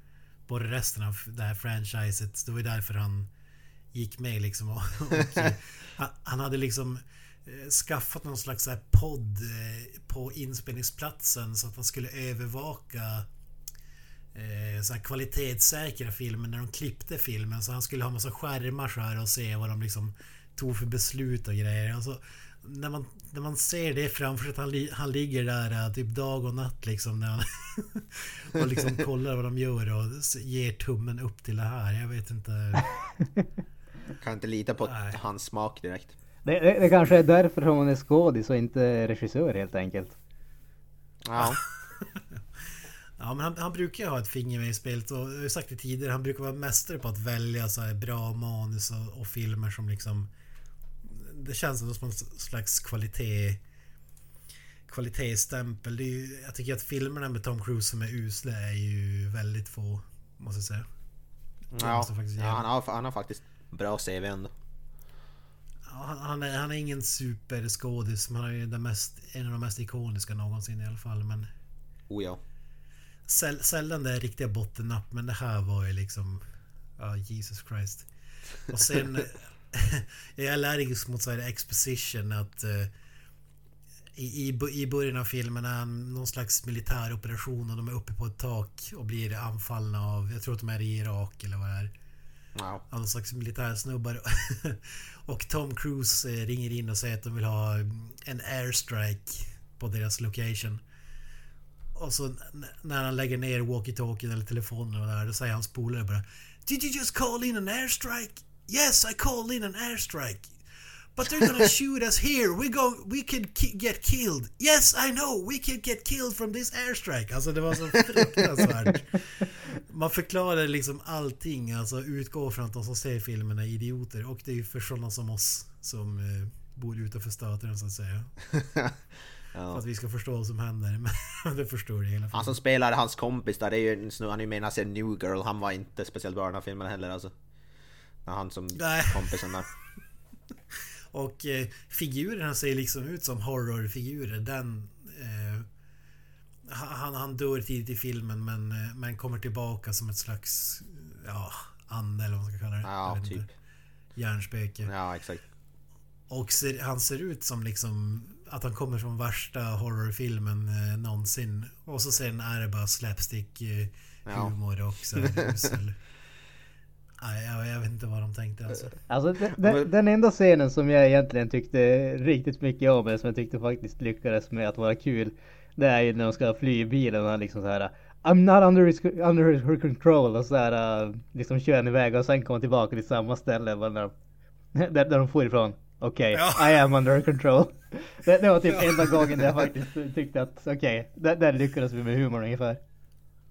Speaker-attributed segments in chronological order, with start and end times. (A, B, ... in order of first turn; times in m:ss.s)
0:00.5-0:03.3 A
0:03.9-0:13.3 A
0:14.3-0:32.9 A
0:34.2-0:36.1 B
0:34.8-0:35.2 A
0:36.4-0:40.1 C
0:41.2-0:41.6 B
0:41.4-0:50.3 A
0:51.0-0:53.6 A
0:54.9-1:00.8 A
1:01.7-1:04.5 B
1:01.8-1:02.6 A
1:05.9-1:11.5 A
1:12.1-1:12.4 B
1:13.3-1:16.4 A
1:17.0-1:18.1 A
1:18.6-1:22.9 A
1:24.2-1:31.9 A
1:32.5-1:32.8 B
1:32.9-1:40.8 A
1:41.9-1:50.6 A
1:51.1-2:08.3 A
2:08.5-2:08.9 B
2:09.5-2:09.8 B
2:09.7-2:12.6 A
2:12.3-2:17.3 B
2:18.2-2:19.7 B
2:18.8-2:19.5 A
2:21.1-2:25.7 A
2:26.6-2:33.5 A
2:32.8-2:33.5 B
2:34.2-2:34.9 A
2:34.8-2:35.4 B
2:36.3-2:46.0 A
2:44.3-2:44.5 B
2:45.1-2:45.7 B
2:47.2-2:49.0 A
2:49.1-3:04.1 C
2:49.6-2:49.8 B
3:04.7-3:12.8 C
3:06.3-3:06.8 A